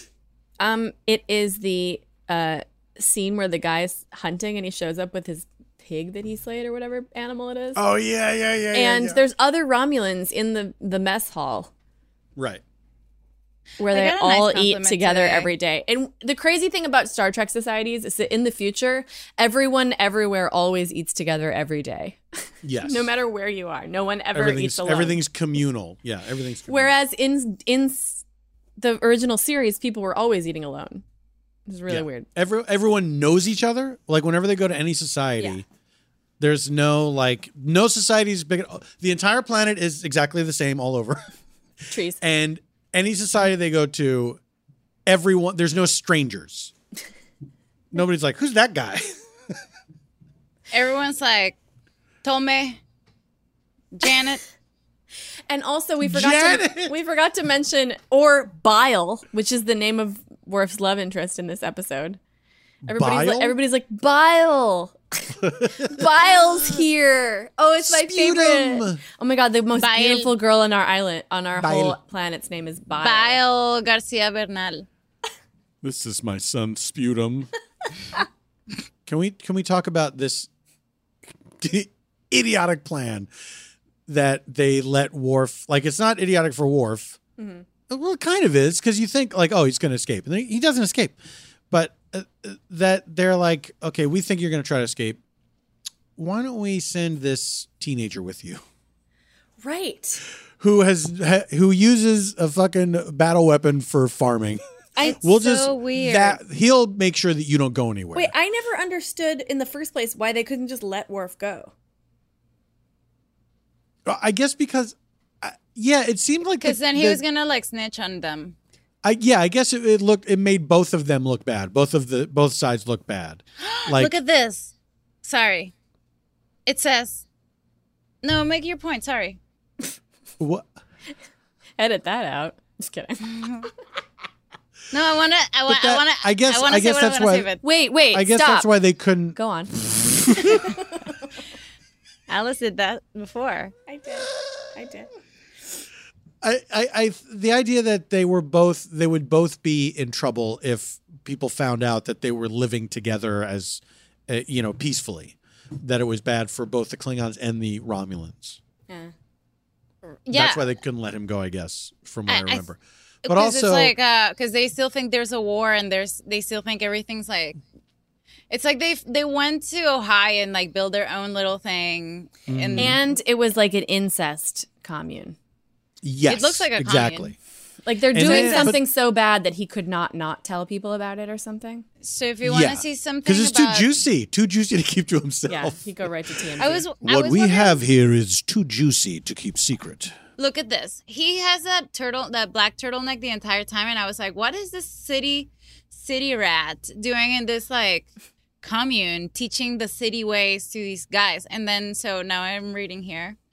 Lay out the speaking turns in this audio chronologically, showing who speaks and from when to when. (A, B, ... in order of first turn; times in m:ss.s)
0:00.6-0:07.8 A
0:07.7-0:09.2 B
0:08.7-0:11.7 A
0:12.4-0:12.6 B
0:13.8-0:22.2 A
0:13.9-0:15.5 C
0:22.6-0:23.1 B
0:22.8-0:25.2 A
0:24.3-0:26.9 B
0:26.7-0:28.2 A
0:28.8-0:31.0 A
0:31.7-0:32.3 A
0:31.9-0:35.6 B
0:36.4-0:41.2 B
0:41.9-0:42.2 A
0:42.2-0:44.4 B
0:45.0-0:46.7 B
0:47.9-0:49.2 B
0:50.7-0:51.6 C
0:52.2-0:52.8 C
0:53.9-0:54.4 C
0:55.5-1:02.2 A
0:56.0-0:56.9 B
1:02.8-1:03.6 B
1:02.9-1:13.4 A
1:05.4-1:06.0 B
1:07.8-1:09.0 B
1:09.8-1:10.3 C
1:11.6-1:12.0 B
1:13.0-1:14.8 C
1:15.8-1:17.5 B
1:19.0-1:20.5 B
1:21.6-1:23.3 B
1:24.1-1:27.2 B
1:27.4-1:27.6 A
1:27.9-1:31.2 B
1:31.7-1:35.2 B
1:36.2-1:38.6 B
1:39.6-1:40.2 A
1:40.6-1:44.6 B
1:45.0-1:46.4 C
1:45.2-1:48.3 B
1:48.1-1:51.7 A
1:54.0-1:57.2 B
1:56.6-1:58.6 C
1:59.0-2:04.1 B
2:03.6-2:04.7 C
2:05.2-2:05.7 C
2:06.6-2:07.2 C
2:08.2-2:09.4 C
2:10.4-2:10.7 B
2:11.8-2:13.3 A
2:13.2-2:13.7 C
2:14.9-2:17.6 C
2:15.7-2:17.5 B
2:17.6-2:18.7 A
2:18.1-2:19.4 B
2:19.3-2:19.7 A
2:20.4-2:21.1 A
2:22.3-2:23.7 C
2:23.9-2:25.1 A
2:26.4-2:38.6 B
2:40.2-2:40.7 C
2:40.3-2:43.9 B
2:42.3-2:42.6 C
2:43.2-2:47.6 C
2:48.5-2:53.0 C
2:52.5-2:53.0 B
2:52.8-2:55.4 A
2:56.0-2:57.4 B
2:56.3-2:57.3 C
2:57.8-3:01.8 A
2:58.1-2:58.8 B
2:58.2-2:58.8 C
3:02.0-3:03.9 C
3:02.4-3:05.8 B
3:05.5-3:06.8 A
3:06.6-3:07.8 C
3:07.0-3:10.2 B
3:10.4-3:18.1 C
3:18.6-3:23.4 C